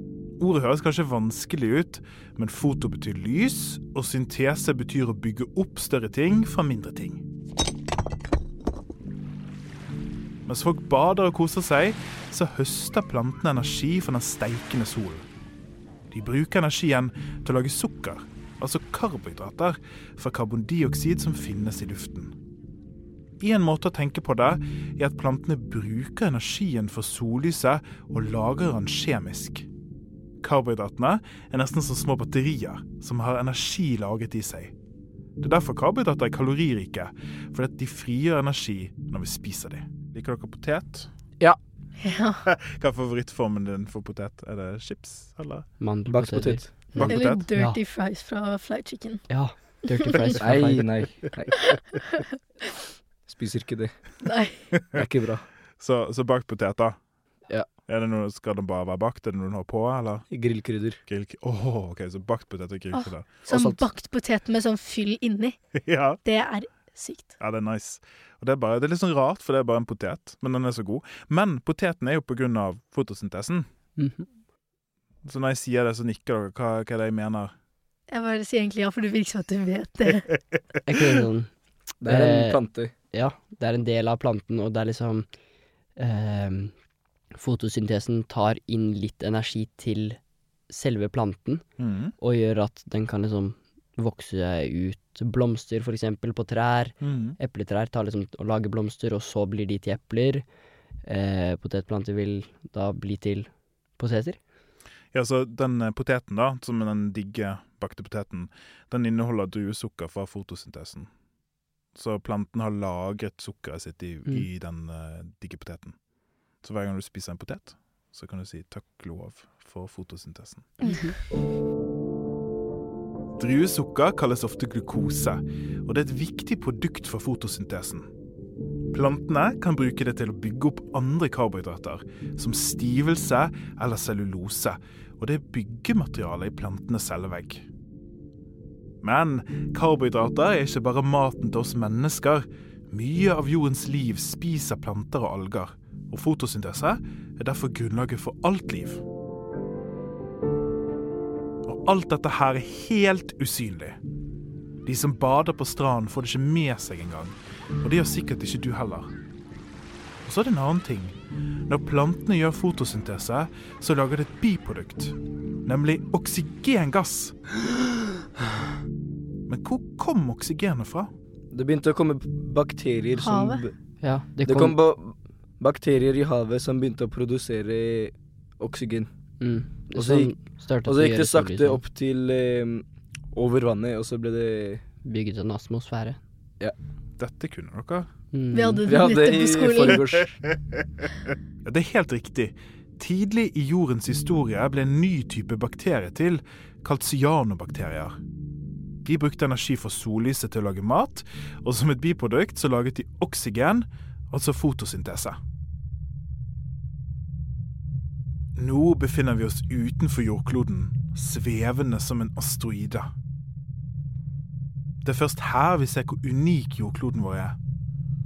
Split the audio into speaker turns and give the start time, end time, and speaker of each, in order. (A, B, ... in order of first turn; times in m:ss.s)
0:00.4-0:07.2 A
0:10.4-0:15.2 A
0:16.1-0:22.3 A
0:23.4-0:29.7 A
0:30.4-0:34.7 A
0:35.4-0:41.1 A
0:42.0-0:42.4 B
0:42.4-0:45.7 A
0:45.8-0:47.8 C
0:46.1-0:47.1 D
0:47.0-0:47.4 A
0:47.0-0:49.2 B
0:49.3-0:50.9 C
0:49.9-0:50.3 B
0:50.4-0:51.8 D
0:51.7-0:52.2 B
0:53.3-0:53.9 D
0:54.2-0:54.6 B
0:54.9-0:55.4 D
0:55.8-0:57.0 A
0:57.8-1:00.3 A
1:00.3-1:01.0 D
1:01.0-1:03.3 A
1:02.9-1:05.6 B
1:03.5-1:03.8 D
1:05.8-1:06.2 A
1:06.2-1:07.3 B
1:07.4-1:13.6 A
1:14.0-1:14.2 C
1:15.2-1:17.5 A
1:18.1-1:20.4 B
1:20.8-1:21.5 C
1:22.0-1:22.9 D
1:22.0-1:25.3 C
1:26.0-1:26.7 C
1:27.3-1:30.2 C
1:30.7-1:31.6 C
1:31.8-1:32.1 A
1:32.2-1:40.4 C
1:37.0-1:37.4 A
1:41.0-1:44.4 C
1:45.1-1:51.1 A
1:51.9-1:56.0 A
1:56.6-2:00.8 A
2:00.8-2:01.2 C
2:03.4-2:08.1 A
2:08.9-2:17.7 A
2:19.0-2:29.0 A
2:31.6-2:34.0 A
2:34.8-2:39.1 A
2:40.2-2:47.4 A
2:49.5-2:51.1 A
2:51.5-2:53.7 D
2:53.1-2:53.7 B
2:54.0-2:54.8 C
2:54.4-2:59.1 D
2:59.4-3:01.8 C
3:00.0-3:04.8 D
3:05.0-3:06.2 C
3:07.2-3:08.1 A
3:08.3-3:09.0 C
3:08.5-3:10.1 B
3:08.8-3:10.3 D
3:10.5-3:10.8 A
3:11.6-3:18.2 A
3:19.0-3:25.4 A
3:28.6-3:33.1 A
3:35.0-3:37.6 A